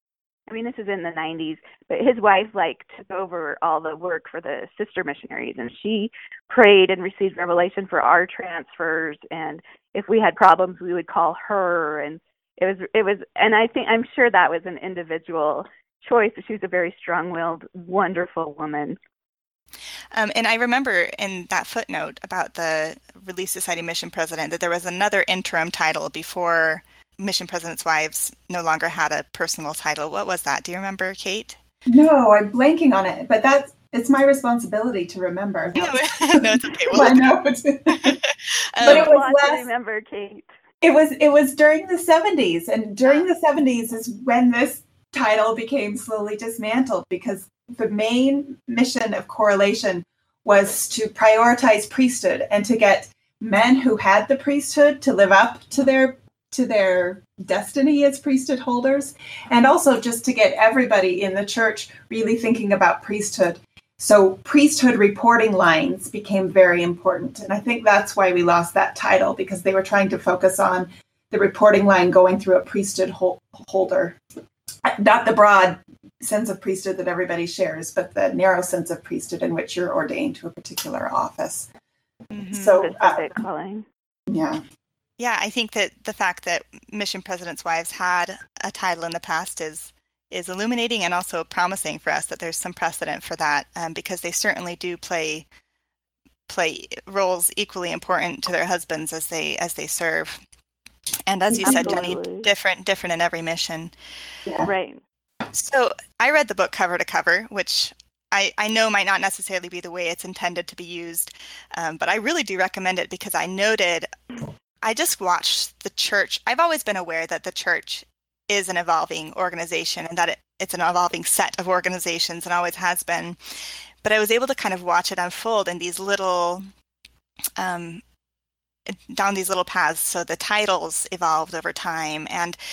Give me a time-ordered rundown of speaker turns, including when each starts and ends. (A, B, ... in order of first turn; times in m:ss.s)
0:00.5-0:19.0 A
0:20.1-0:31.6 B
0:31.9-0:38.2 C
0:35.8-0:37.3 B
0:37.9-0:39.1 B
0:38.8-0:39.7 C
0:38.8-0:40.5 A
0:40.8-1:14.2 C
1:14.8-1:21.7 C
1:22.3-1:22.9 B
1:22.5-1:23.3 C
1:22.6-1:23.9 A
1:24.3-1:24.6 C
1:25.2-1:35.5 B
1:36.5-1:40.4 B
1:41.3-1:43.9 B
1:41.5-1:42.1 C
1:41.6-1:42.5 A
1:44.6-1:45.0 A
1:45.5-1:54.1 B
1:54.8-2:03.4 B
2:04.0-2:06.7 B
2:07.6-2:08.0 B
2:08.9-2:12.6 B